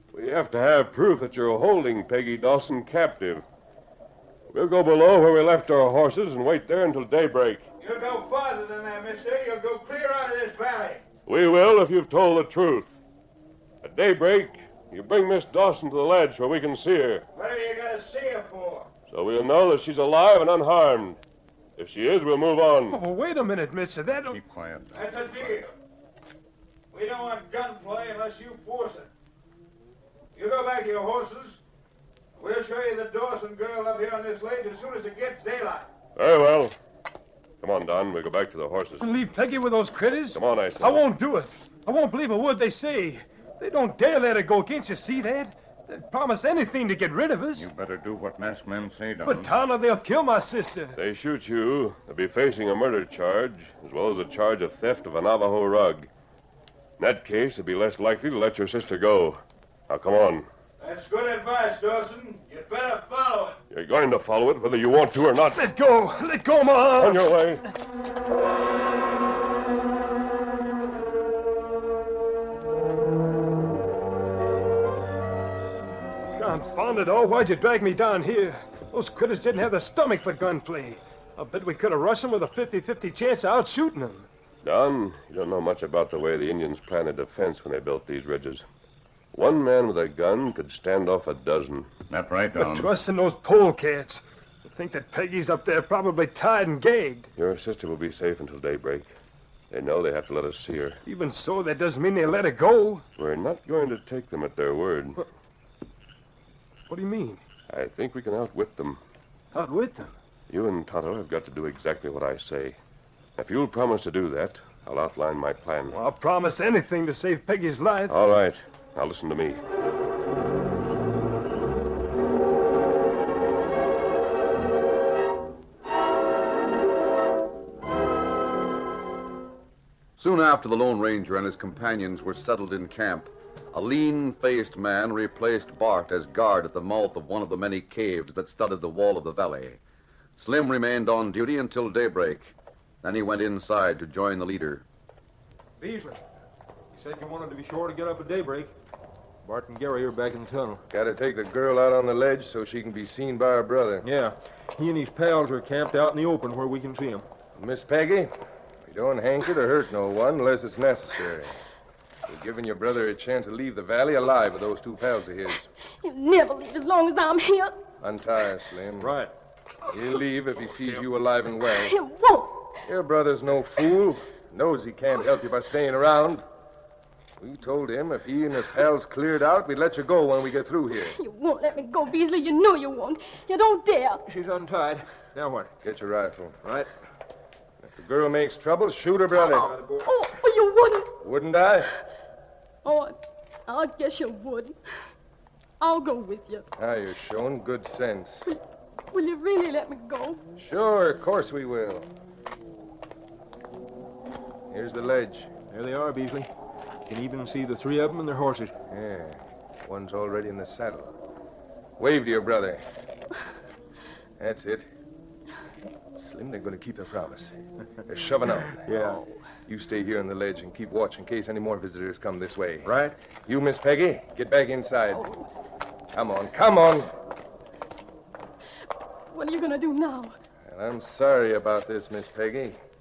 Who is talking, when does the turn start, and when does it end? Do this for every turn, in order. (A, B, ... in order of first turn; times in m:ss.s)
0:00.1-0:03.4 A
0:04.5-0:07.6 A
0:07.8-0:11.0 B
0:11.3-0:13.0 A
0:13.8-0:17.2 A
0:17.4-0:18.9 B
0:19.1-0:21.2 A
0:21.8-0:23.0 A
0:22.9-0:24.4 C
0:24.3-0:25.6 D
0:24.9-0:25.7 B
0:26.9-0:29.1 B
0:30.4-0:31.6 B
0:32.4-0:35.9 B
0:36.2-0:36.8 A
0:37.6-0:39.1 A
0:39.0-0:47.7 C
0:40.3-0:41.0 A
0:47.6-0:49.5 D
0:49.2-0:51.0 C
0:51.0-0:56.1 A
0:57.0-1:00.5 A
1:00.8-1:03.6 B
1:03.7-1:05.7 A
1:05.5-1:07.4 C
1:06.8-1:07.6 A
1:16.4-1:24.3 C
1:24.6-1:28.6 A
1:29.3-1:31.9 A
1:32.1-1:32.9 D
1:32.6-1:37.3 C
1:37.4-1:39.1 A
1:39.7-1:41.0 A
1:41.1-1:43.0 C
1:43.2-1:45.2 A
1:46.9-1:47.4 C
1:47.7-1:49.0 A
1:49.5-1:50.1 C
1:50.5-1:52.8 A
1:53.4-1:56.0 A
1:55.9-1:58.2 C
1:58.1-1:59.6 A
2:10.2-2:19.8 E
2:20.4-2:24.9 E
2:25.8-2:26.2 F
2:26.9-2:28.7 F
2:29.4-2:30.8 F
2:30.9-2:34.1 G
2:34.0-2:37.3 F
2:37.6-2:38.3 G
2:38.8-2:41.5 G
2:42.3-2:45.7 G
2:46.0-2:47.8 H
2:48.0-2:49.2 G
2:49.0-2:49.3 F
2:49.9-2:52.0 G
2:51.6-2:52.8 H
2:52.8-2:56.4 G
2:57.4-3:01.2 G
3:01.0-3:04.2 H
3:04.3-3:05.7 F
3:05.8-3:06.6 G
3:06.6-3:06.9 F
3:07.9-3:09.8 G
3:09.5-3:10.0 F
3:10.0-3:11.2 H
3:11.2-3:11.9 G
3:12.8-3:14.8 H
3:15.8-3:16.7 H
3:16.8-3:18.5 G
3:19.1-3:20.4 H
3:20.6-3:22.1 G
3:24.7-3:25.5 G
3:25.7-3:26.5 F
3:27.1-3:28.7 F
3:28.9-3:31.2 G
3:32.0-3:32.8 G
3:34.4-3:34.9 G
3:36.2-3:39.1 G
3:38.8-3:39.2 F
3:39.7-3:45.3 G
3:42.8-3:43.1 F
3:46.1-3:47.1 G
3:49.3-3:50.4 H
3:50.7-3:52.8 G